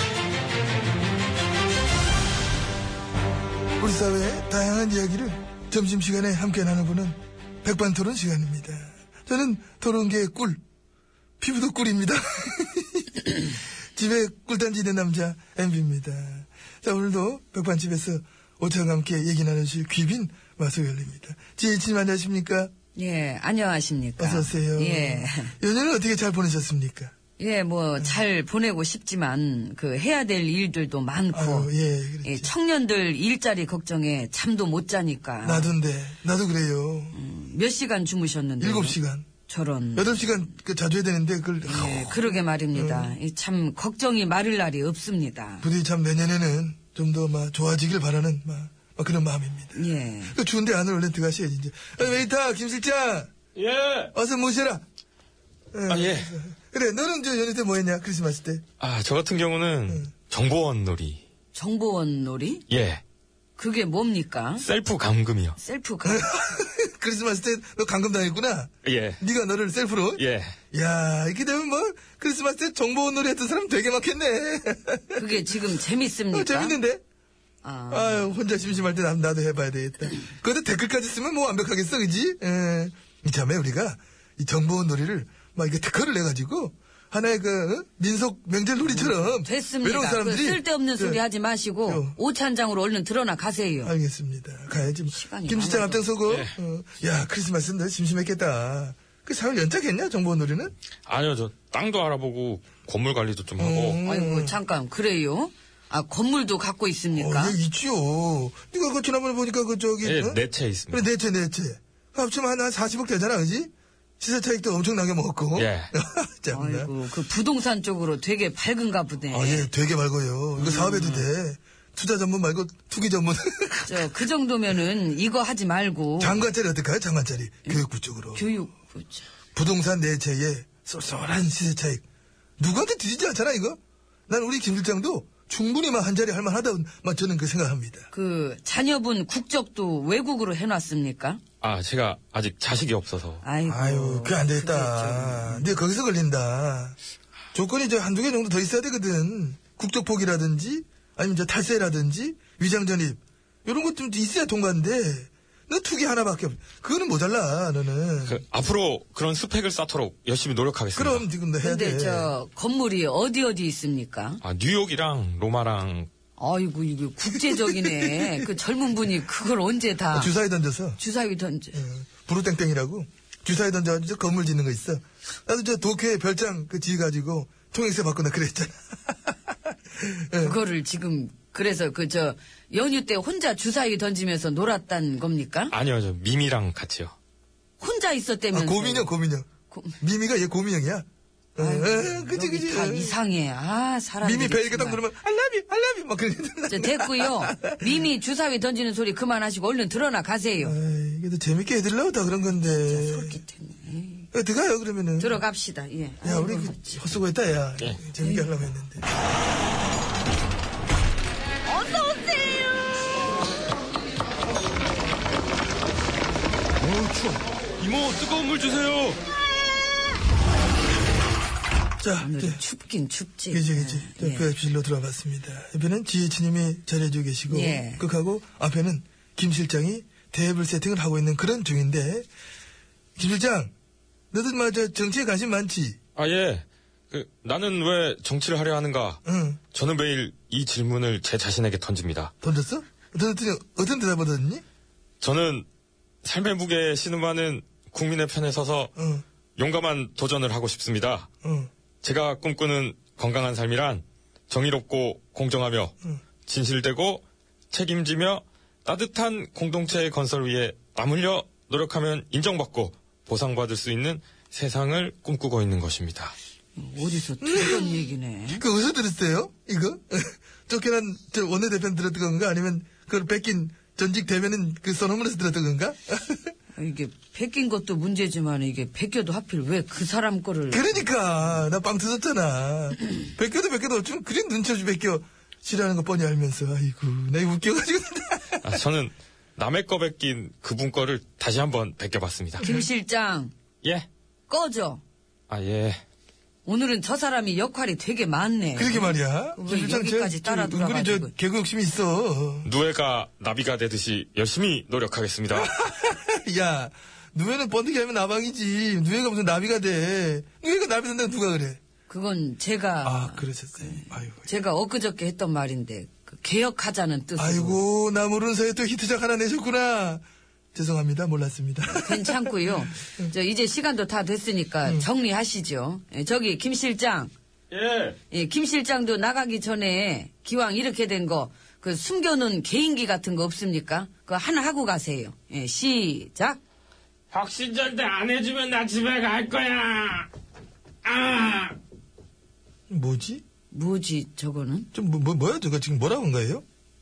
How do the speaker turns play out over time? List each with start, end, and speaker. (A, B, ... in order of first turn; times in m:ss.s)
0:03.8-0:10.6 A
0:11.4-0:22.7 A
0:23.0-0:25.5 B
0:24.2-0:27.1 A
0:27.4-0:31.7 B
0:31.3-0:32.5 A
0:32.2-0:35.7 B
0:35.4-0:37.2 A
0:37.1-0:40.4 B
0:38.6-0:39.3 A
0:40.0-0:43.2 A
0:41.6-0:45.7 B
0:45.6-0:53.3 A
0:49.8-0:50.4 B
0:53.6-0:54.1 C
0:54.1-0:54.8 A
0:55.7-0:58.6 A
0:55.9-0:56.3 C
0:58.8-1:01.2 C
1:01.5-1:02.6 B
1:02.7-1:03.0 C
1:03.6-1:04.6 B
1:04.6-1:05.6 C
1:05.6-1:06.3 B
1:06.0-1:15.6 A
1:08.8-1:09.2 C
1:10.2-1:10.5 C
1:15.2-1:16.8 B
1:16.3-1:17.0 A
1:17.6-1:18.3 B
1:17.9-1:31.2 A
1:28.8-1:33.9 B
1:31.8-1:32.2 A
1:33.8-1:40.7 A
1:34.8-1:36.1 B
1:36.3-1:36.5 C
1:41.1-1:44.0 C
1:43.6-1:44.6 A
1:44.0-1:47.6 B
1:47.1-1:56.9 A
1:50.0-1:51.1 C
1:55.6-1:55.9 C
1:56.5-1:59.7 B
1:59.3-2:04.3 A
2:00.6-2:01.3 B
2:03.9-2:06.4 B
2:06.2-2:08.5 A
2:08.3-2:09.3 B
2:09.6-2:12.0 A
2:12.6-2:18.1 A
2:18.1-2:21.4 B
2:21.6-2:23.4 C
2:23.4-2:25.8 B
2:23.6-2:27.0 A
2:27.5-2:38.4 A
2:38.2-2:41.3 C
2:41.0-2:42.4 A
2:41.6-2:44.4 B
2:44.4-2:46.1 C
2:46.4-2:50.3 B
2:47.7-2:48.4 A
2:50.1-2:51.0 A
2:51.0-2:51.8 B
2:51.7-3:00.6 A
3:00.4-3:05.7 B
3:05.7-3:07.1 C
3:07.8-3:09.1 B
3:08.5-3:09.5 A
3:09.7-3:10.0 B
3:10.0-3:13.2 A
3:11.6-3:15.0 B
3:14.2-3:17.9 A
3:16.7-3:20.8 B
3:20.6-3:23.4 A
3:22.8-3:24.3 B
3:24.3-3:25.4 A
3:25.2-3:27.0 B
3:26.2-3:29.0 A
3:28.2-3:28.5 B
3:31.7-3:32.8 B
3:36.8-3:39.2 C
3:42.0-3:42.6 A
3:42.2-3:44.5 B
3:43.5-3:52.3 A
3:47.5-3:48.0 B
3:53.2-3:53.7 A
3:54.3-3:56.0 A
3:56.2-3:59.2 C
3:59.2-3:59.6 A
3:59.7-4:02.3 C
4:02.4-4:04.6 A
4:05.2-4:05.7 C
4:06.2-4:08.9 C
4:09.0-4:09.2 A
4:09.6-4:11.3 C
4:11.4-4:11.7 A
4:12.0-4:15.9 C
4:16.5-4:26.4 C
4:26.8-4:28.6 B
4:27.4-4:36.5 A
4:36.8-4:41.0 B
4:40.7-4:48.7 A
4:48.6-4:52.7 C
4:52.6-4:52.9 A
4:52.6-4:53.5 B
4:54.5-4:55.0 B
4:55.5-4:56.0 C
4:56.7-5:01.3 B
4:58.8-5:02.7 A
5:02.6-5:05.8 C
5:05.5-5:11.8 A
5:12.1-5:17.8 B
5:13.0-5:14.5 A
5:17.4-5:20.2 A
5:20.7-5:23.3 A
5:22.0-5:27.3 B
5:27.7-5:28.2 C
5:28.3-5:36.6 B
5:37.3-5:40.3 C
5:41.0-5:41.8 C
5:42.9-5:43.4 A
5:43.7-5:44.9 B
5:44.9-5:46.6 A